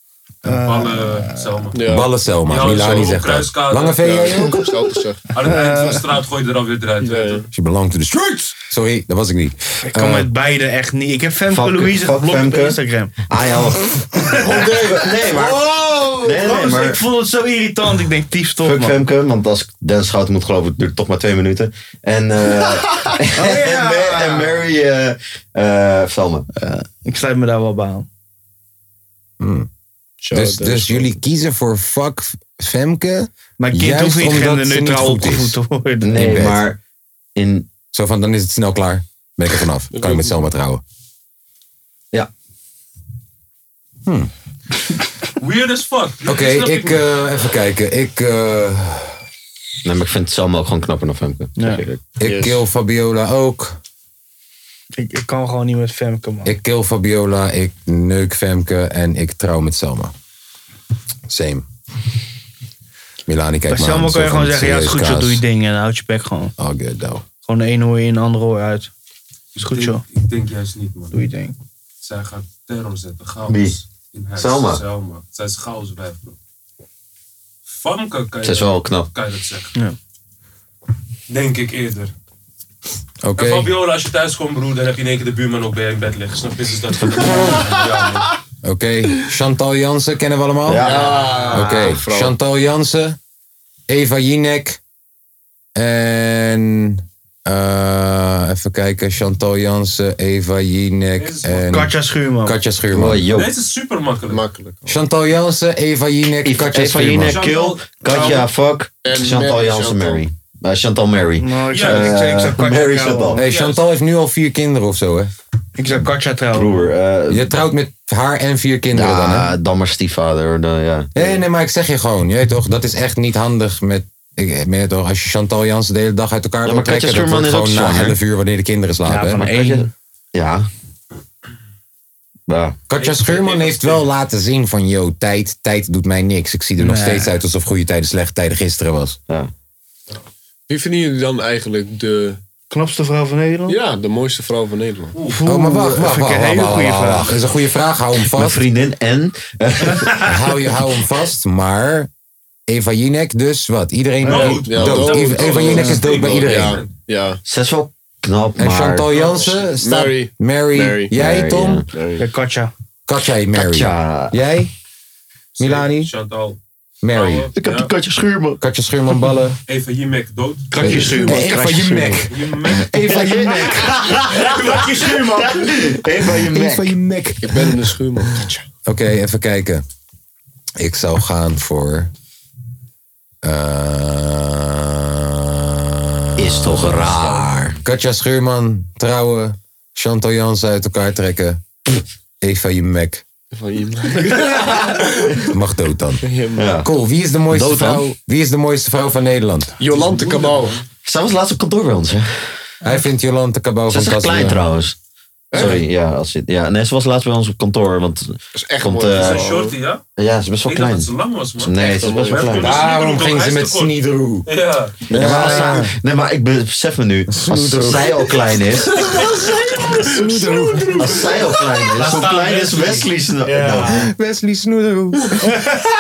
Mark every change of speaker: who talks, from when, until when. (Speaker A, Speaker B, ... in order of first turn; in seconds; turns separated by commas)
Speaker A: 0.5-1.7, Speaker B: 0.5-1.8, Speaker C: 1.8-2.1, Speaker D: 1.8-4.7, Speaker B: 2.5-4.0, Speaker C: 4.0-5.3, Speaker B: 5.3-7.4, Speaker A: 5.4-6.1, Speaker C: 7.0-7.5, Speaker D: 7.5-9.6, Speaker A: 9.8-13.2, Speaker E: 11.5-17.0, Speaker A: 14.2-19.0, Speaker E: 18.6-26.5, Speaker A: 23.3-24.6, Speaker A: 26.6-28.1, Speaker D: 29.4-29.7, Speaker C: 30.2-31.1, Speaker D: 30.3-35.6, Speaker A: 33.6-36.5, Speaker E: 36.0-36.8, Speaker D: 36.1-36.7, Speaker E: 37.4-37.7, Speaker D: 37.9-40.8, Speaker C: 39.9-40.5, Speaker D: 44.1-44.3, Speaker B: 45.4-47.0, Speaker D: 46.2-49.2, Speaker E: 49.9-52.0, Speaker A: 51.6-51.8, Speaker D: 52.2-53.8, Speaker C: 52.2-52.6, Speaker A: 55.0-56.5, Speaker D: 56.4-60.1, Speaker D: 61.3-61.7, Speaker D: 63.3-65.4, Speaker A: 63.7-66.5, Speaker D: 66.6-67.2, Speaker A: 67.4-68.9, Speaker A: 69.6-70.0, Speaker B: 69.6-71.2, Speaker A: 71.1-71.5, Speaker B: 72.0-76.4, Speaker E: 73.5-73.8, Speaker E: 74.4-74.8, Speaker B: 77.7-79.7, Speaker E: 78.4-79.1, Speaker B: 81.3-82.1, Speaker D: 83.2-83.7, Speaker B: 83.4-88.3, Speaker D: 88.6-93.2, Speaker E: 90.7-91.6, Speaker C: 90.8-92.3, Speaker D: 93.9-94.8, Speaker D: 95.8-103.2, Speaker B: 101.2-101.8, Speaker A: 101.7-102.6, Speaker E: 102.9-103.5, Speaker B: 103.3-104.5, Speaker C: 104.3-105.0, Speaker D: 104.9-107.5, Speaker E: 106.4-113.4, Speaker B: 107.2-108.4, Speaker C: 109.0-110.2, Speaker A: 111.4-113.4, Speaker B: 111.7-112.2, Speaker D: 113.4-115.3, Speaker B: 113.4-113.8, Speaker A: 115.8-116.9, Speaker E: 116.5-117.6, Speaker D: 117.3-119.5, Speaker E: 118.9-121.4, Speaker D: 121.2-129.5, Speaker E: 126.7-128.2, Speaker A: 129.1-129.9, Speaker E: 129.4-130.7, Speaker E: 132.5-132.8, Speaker D: 132.9-139.2, Speaker B: 132.9-134.1, Speaker A: 136.8-137.3, Speaker C: 140.7-142.4, Speaker A: 142.7-143.8, Speaker C: 143.7-145.2, Speaker B: 145.1-145.4, Speaker A: 145.3-147.3, Speaker D: 145.4-148.6, Speaker E: 148.3-150.2, Speaker D: 150.2-152.1, Speaker D: 152.7-156.8, Speaker B: 154.2-156.9, Speaker C: 154.3-157.4, Speaker E: 157.4-159.1, Speaker D: 158.6-161.8, Speaker C: 159.1-161.1, Speaker B: 159.2-159.6, Speaker E: 161.1-161.9, Speaker C: 161.9-162.3, Speaker A: 162.2-162.7, Speaker D: 163.1-164.7, Speaker E: 163.5-164.4, Speaker B: 165.6-166.6, Speaker D: 165.6-166.1, Speaker D: 167.0-167.5, Speaker B: 167.1-167.9, Speaker E: 167.6-168.6, Speaker D: 168.6-169.6, Speaker B: 169.7-170.8, Speaker A: 170.7-172.1, Speaker D: 170.8-173.9, Speaker E: 170.8-172.0, Speaker C: 171.0-171.6, Speaker B: 172.3-173.0, Speaker E: 172.8-176.9, Speaker A: 173.1-176.0, Speaker D: 176.4-177.8, Speaker C: 177.4-178.7, Speaker D: 178.9-179.8, Speaker D: 180.8-182.1, Speaker D: 183.4-191.6, Speaker E: 186.4-187.8, Speaker D: 192.4-193.2, Speaker C: 193.5-195.4, Speaker D: 195.5-196.2, Speaker C: 196.2-196.9, Speaker E: 196.6-196.9, Speaker D: 196.8-199.8, Speaker E: 197.5-198.1, Speaker C: 199.8-200.8, Speaker B: 200.2-200.7, Speaker E: 201.1-202.6, Speaker D: 202.8-204.6, Speaker E: 203.9-205.0, Speaker C: 205.5-205.8, Speaker E: 205.5-209.5, Speaker C: 208.6-209.8, Speaker B: 209.2-210.0, Speaker E: 210.2-212.9, Speaker B: 210.7-213.9, Speaker C: 211.8-212.9, Speaker D: 212.6-214.5, Speaker B: 214.5-215.0, Speaker E: 215.1-219.0, Speaker D: 215.1-215.9, Speaker D: 217.3-218.4, Speaker D: 219.9-221.1, Speaker E: 221.0-224.0, Speaker A: 222.2-222.7, Speaker A: 223.4-224.0, Speaker D: 223.8-225.8